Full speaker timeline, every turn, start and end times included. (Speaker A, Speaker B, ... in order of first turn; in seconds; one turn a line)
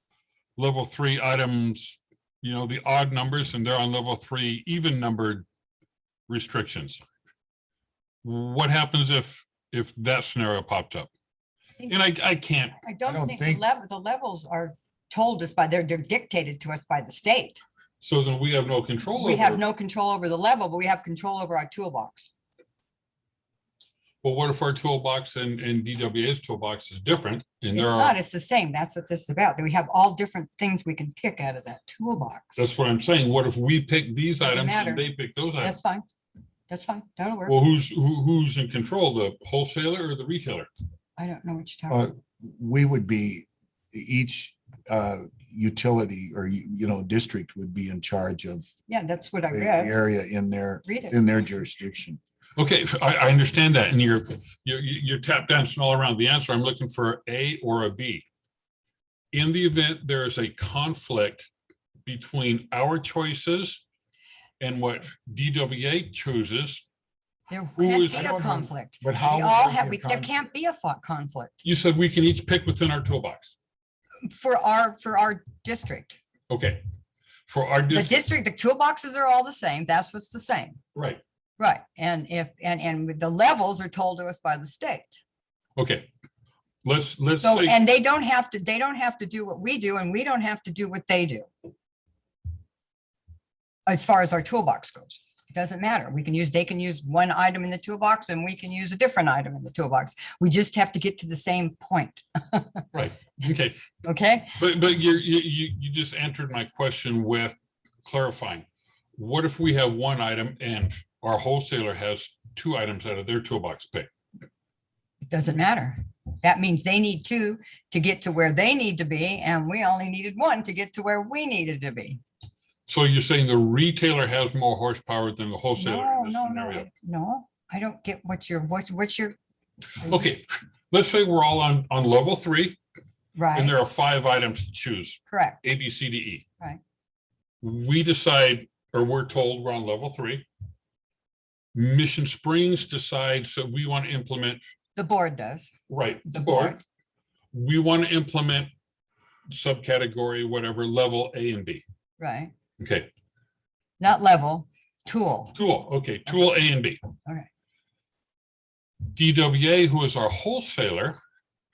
Speaker A: 0.6-5.5
Speaker A: 6.3-7.0
Speaker A: 8.2-11.1
Speaker A: 11.9-12.8
Speaker B: 12.8-17.6
Speaker C: 13.0-13.6
Speaker A: 18.0-19.6
Speaker B: 19.1-22.3
Speaker A: 24.2-28.1
Speaker B: 27.7-32.6
Speaker A: 32.6-35.8
Speaker B: 34.4-35.0
Speaker B: 35.6-36.0
Speaker B: 36.7-37.6
Speaker A: 37.5-40.7
Speaker B: 41.2-42.0
Speaker C: 41.9-48.7
Speaker B: 48.9-50.0
Speaker C: 49.5-52.2
Speaker B: 50.8-51.1
Speaker A: 52.6-58.2
Speaker A: 59.3-61.5
Speaker A: 62.0-63.8
Speaker A: 64.6-66.8
Speaker B: 67.5-71.6
Speaker A: 67.8-68.5
Speaker C: 68.1-70.3
Speaker A: 71.6-73.5
Speaker B: 74.3-76.2
Speaker A: 76.5-76.8
Speaker A: 77.5-78.2
Speaker B: 77.9-80.8
Speaker A: 80.9-81.2
Speaker B: 81.6-85.2
Speaker A: 85.8-86.1
Speaker A: 86.8-87.8
Speaker B: 87.4-91.5
Speaker B: 93.9-102.8
Speaker A: 102.9-103.7
Speaker B: 104.0-104.6
Speaker A: 104.6-114.1
Speaker B: 115.2-122.2
Speaker A: 122.9-126.9
Speaker B: 125.8-129.4
Speaker A: 130.1-132.8
Speaker B: 133.3-133.8
Speaker A: 133.5-136.4
Speaker B: 135.3-135.6
Speaker A: 137.6-140.4
Speaker A: 141.7-144.7
Speaker B: 144.9-145.7
Speaker A: 145.9-146.8
Speaker B: 146.3-146.8
Speaker A: 147.5-148.7
Speaker A: 149.5-151.8
Speaker B: 152.2-152.5
Speaker A: 152.8-153.1
Speaker B: 154.0-155.5
Speaker A: 155.5-157.0
Speaker A: 159.1-161.2